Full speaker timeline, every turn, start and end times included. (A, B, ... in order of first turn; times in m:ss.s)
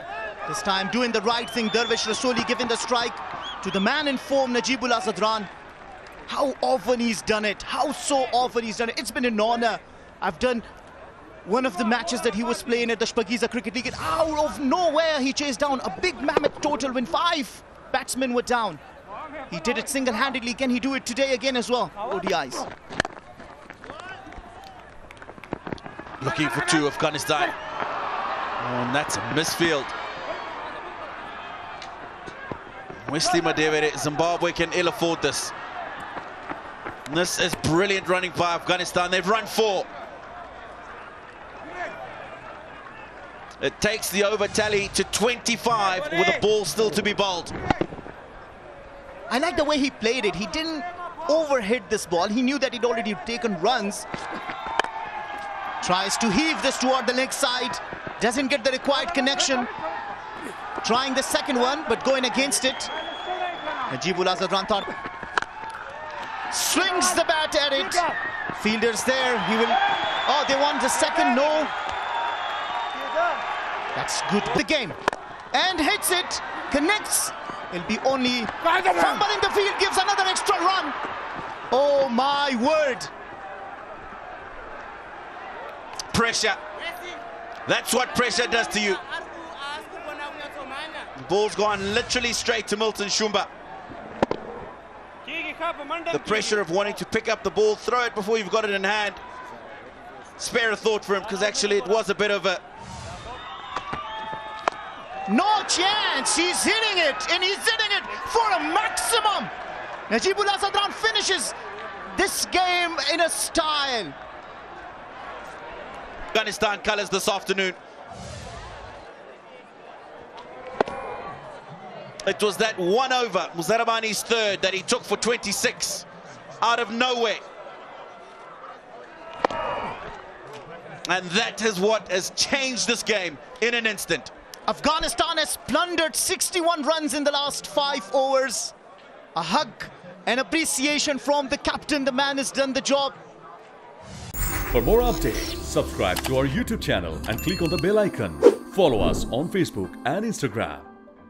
0:00.5-0:05.5 A
0:06.3-0:10.7 A
0:11.4-0:18.8 A
0:19.5-0:22.7 A
0:26.2-0:27.6 B
0:28.6-0:29.9 B
0:33.0-0:35.5 B
0:37.1-0:39.9 B
0:43.6-0:47.6 B
0:49.3-0:54.1 A
0:55.8-0:59.7 A
1:00.8-1:02.9 A
1:03.9-1:05.0 A
1:06.5-1:11.7 A
1:14.0-1:15.0 A
1:15.5-1:21.0 A
1:21.7-1:23.1 A
1:26.1-1:26.6 B
1:27.7-1:29.1 B
1:31.2-1:33.5 B
1:36.0-1:39.2 B
1:40.4-1:42.6 B
1:45.3-1:49.5 A
1:50.1-1:51.6 A
1:52.1-1:54.2 A
1:56.3-1:57.8 B
2:02.2-2:06.1 B
2:06.6-2:07.4 B
2:11.0-2:14.3 B
2:14.7-2:18.7 A
2:19.4-2:23.2 A
2:24.7-2:30.9 C